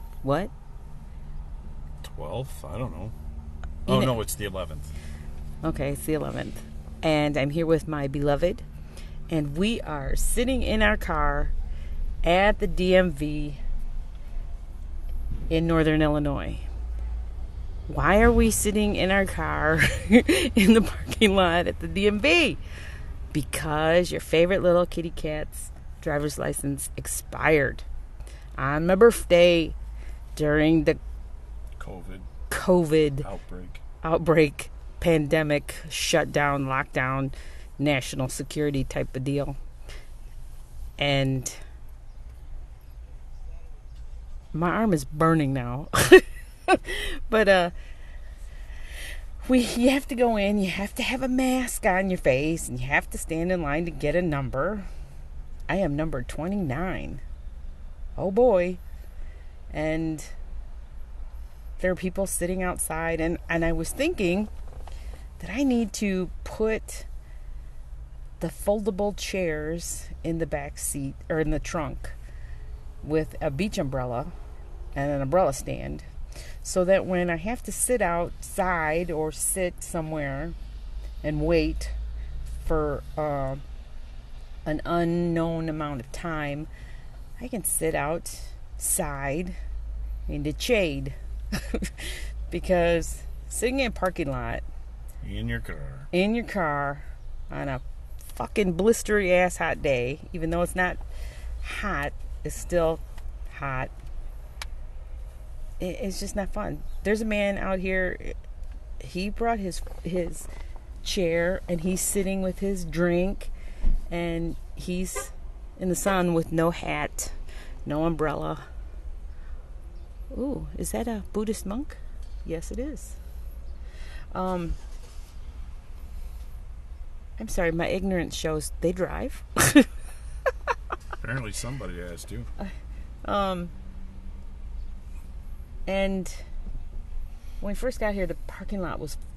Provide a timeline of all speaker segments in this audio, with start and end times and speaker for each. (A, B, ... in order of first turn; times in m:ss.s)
0:00.2-0:00.5 A
0:02.0-0:03.2 B
0:03.8-0:04.9 B
0:03.9-0:04.2 A
0:05.6-0:08.6 A
0:09.3-0:11.5 A
0:12.2-0:13.6 A
0:15.5-0:16.7 A
0:17.9-0:22.6 A
0:23.3-0:27.8 A
0:28.6-0:29.8 A
0:30.4-0:31.0 A
0:31.8-0:32.3 B
0:32.5-0:33.3 A
0:33.2-0:33.8 B
0:34.0-0:39.6 A
0:41.0-0:41.6 A
0:44.5-0:47.7 A
0:49.4-0:54.9 A
0:55.7-0:57.2 A
0:58.2-0:58.8 A
0:59.7-1:00.3 A
1:01.8-1:04.5 A
1:05.4-1:07.1 A
1:08.4-1:12.2 A
1:13.0-1:14.3 A
1:15.0-1:16.1 A
1:16.6-1:20.6 A
1:21.2-1:22.0 A
1:22.6-1:23.6 A
1:24.6-1:26.7 A
1:27.4-1:29.6 A
1:30.3-1:34.6 A
1:35.2-1:36.1 B
1:36.1-1:41.0 A
1:41.6-1:43.9 A
1:45.8-1:48.4 A
1:49.0-1:50.5 A
1:51.0-1:53.5 A
1:54.1-1:58.6 A
2:00.3-2:03.2 A
2:04.3-2:04.8 A
2:07.4-2:09.9 A
2:11.2-2:12.5 B
2:12.6-2:13.7 A
2:15.9-2:16.5 A
2:17.6-2:19.2 A